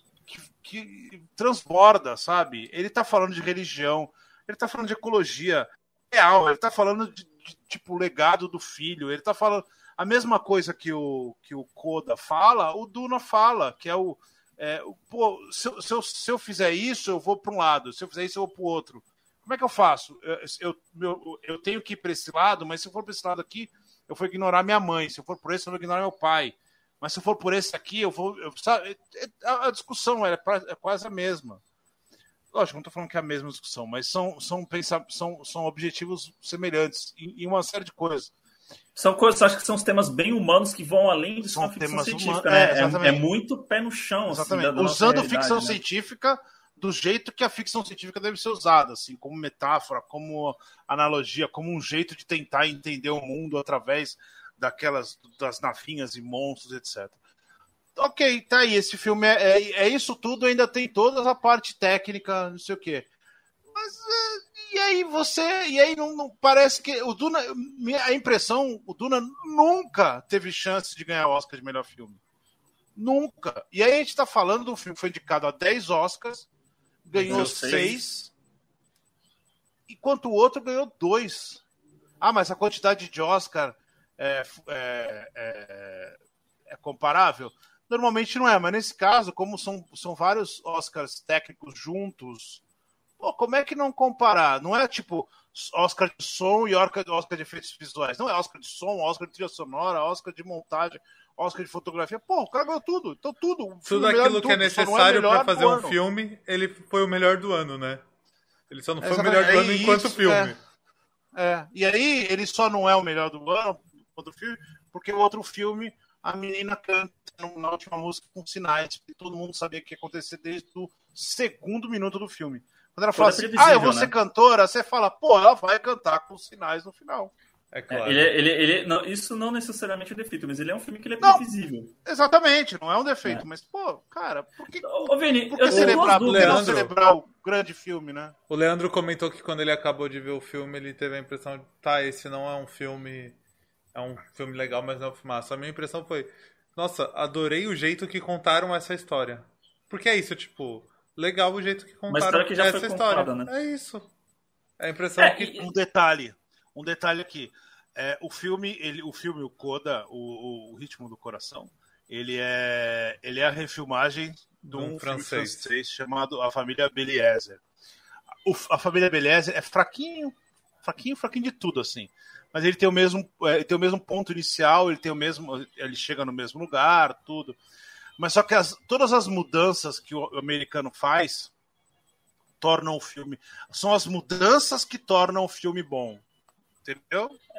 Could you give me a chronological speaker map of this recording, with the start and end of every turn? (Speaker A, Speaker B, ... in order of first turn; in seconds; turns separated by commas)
Speaker A: 0.2-31.6, Speaker A: 32.5-38.3, Speaker B: 38.9-45.8, Speaker A: 41.5-43.2, Speaker A: 44.3-57.2, Speaker A: 57.9-63.1, Speaker A: 63.7-72.2, Speaker A: 73.0-76.5, Speaker A: 77.0-78.3, Speaker C: 77.1-77.5, Speaker B: 77.2-78.0, Speaker A: 79.9-81.6, Speaker A: 82.2-86.2, Speaker A: 86.7-92.6, Speaker A: 93.2-105.9, Speaker C: 103.8-108.0, Speaker C: 108.7-110.6, Speaker A: 109.0-110.5, Speaker A: 111.3-127.3, Speaker B: 123.1-124.1, Speaker C: 127.7-128.3, Speaker B: 127.9-131.9, Speaker A: 132.0-138.3, Speaker B: 134.8-136.7, Speaker C: 135.7-136.9, Speaker C: 138.5-143.3, Speaker C: 143.9-154.1, Speaker B: 152.1-153.5, Speaker C: 154.8-155.6, Speaker B: 155.2-155.7, Speaker A: 155.5-167.6, Speaker C: 164.6-165.7, Speaker A: 168.4-177.6, Speaker A: 178.2-181.5, Speaker A: 182.6-186.2, Speaker A: 186.8-187.3